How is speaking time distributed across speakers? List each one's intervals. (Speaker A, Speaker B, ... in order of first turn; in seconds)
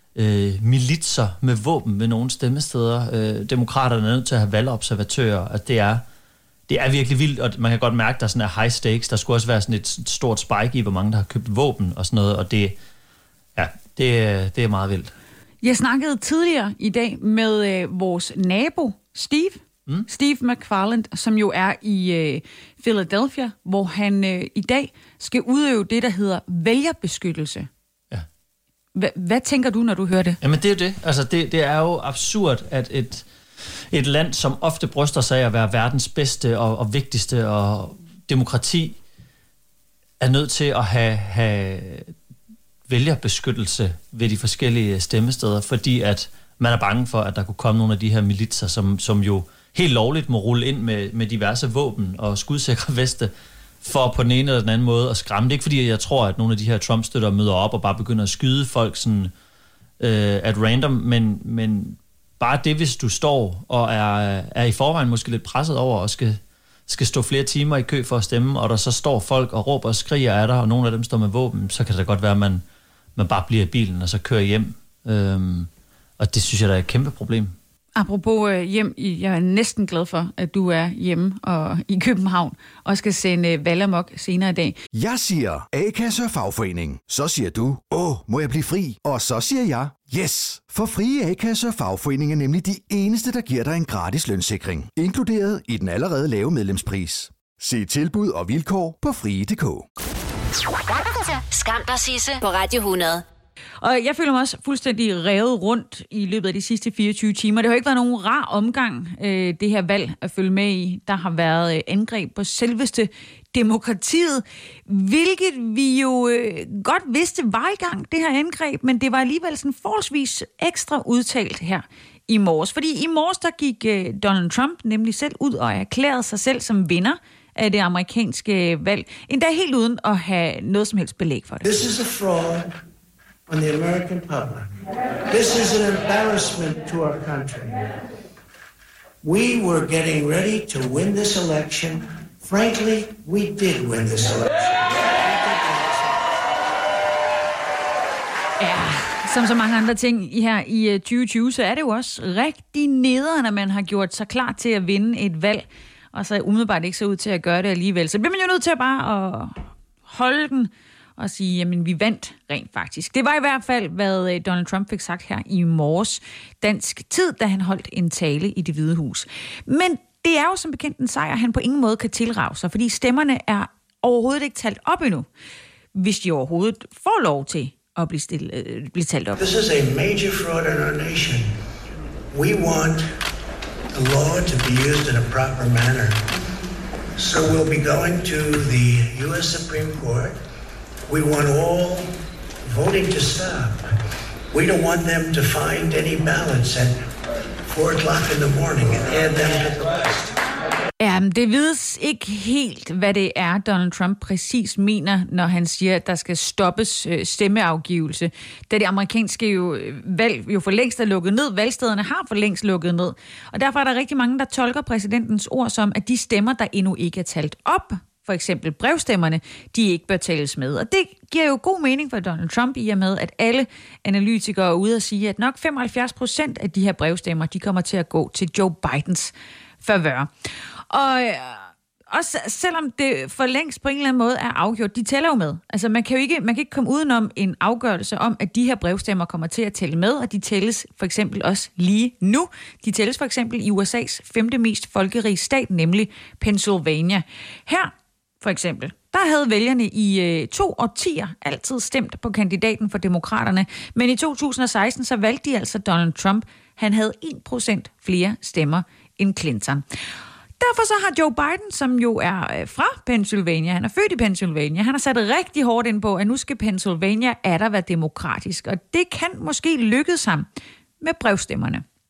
Speaker A: 0.1-6.0, 6.7-12.8, 13.6-15.1, 30.4-33.3, 33.9-39.0, 40.2-42.1, 42.9-59.3, 60.0-72.6, 73.2-77.5
Speaker B: 15.6-27.7, 28.9-30.4, 78.0-84.8, 103.8-131.7, 148.6-175.3, 175.9-179.4, 201.0-230.3, 230.9-259.8, 260.6-270.5, 271.0-271.8
Speaker C: 85.0-99.8
Speaker D: 100.7-103.2
Speaker E: 131.6-132.7, 133.5-134.7, 135.3-137.9, 139.2-146.0, 179.4-181.6, 182.3-183.1, 183.9-186.2, 187.2-190.4, 191.1-192.1, 192.6-193.9, 194.5-197.0, 197.7-200.4